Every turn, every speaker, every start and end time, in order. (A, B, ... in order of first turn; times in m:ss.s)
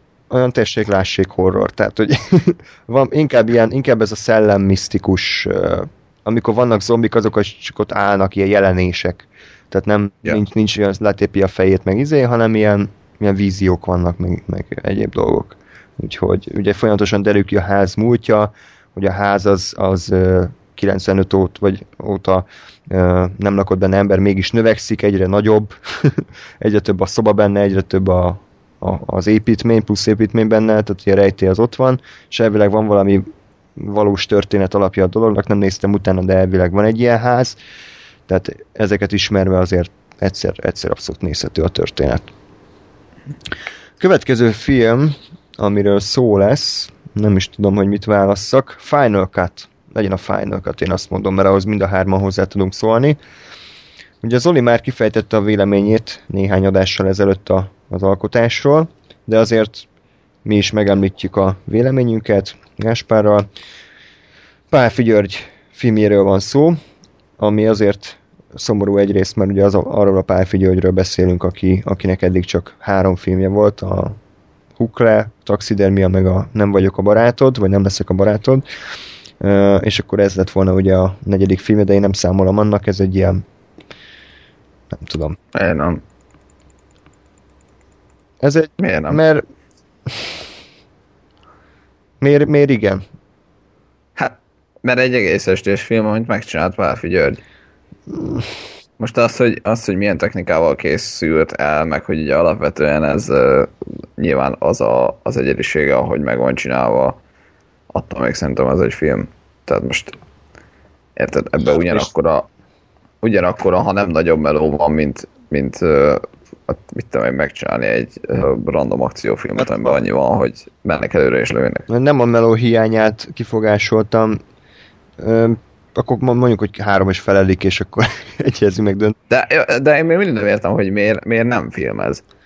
0:00.3-0:37.6 A
0:38.3-0:42.3 A
0:44.0-0:53.2 A
0:54.2-0:59.9 A
1:00.4-1:03.5 A
1:04.7-1:06.8 A
1:07.4-1:14.2 A
1:14.8-1:18.6 A
1:19.4-1:23.4 A
1:24.9-1:25.4 A
1:25.5-1:26.0 B
1:28.4-1:29.4 A
1:28.8-1:29.2 B
1:32.2-1:33.0 A
1:34.2-1:37.4 B
1:38.1-1:38.5 A
1:39.0-1:47.2 B
1:47.9-1:50.2 B
1:51.2-1:52.5 B
1:53.2-2:01.9 B
1:59.6-2:00.0 A
2:01.9-2:04.4 A
2:05.2-2:09.2 A
2:09.3-2:12.2 B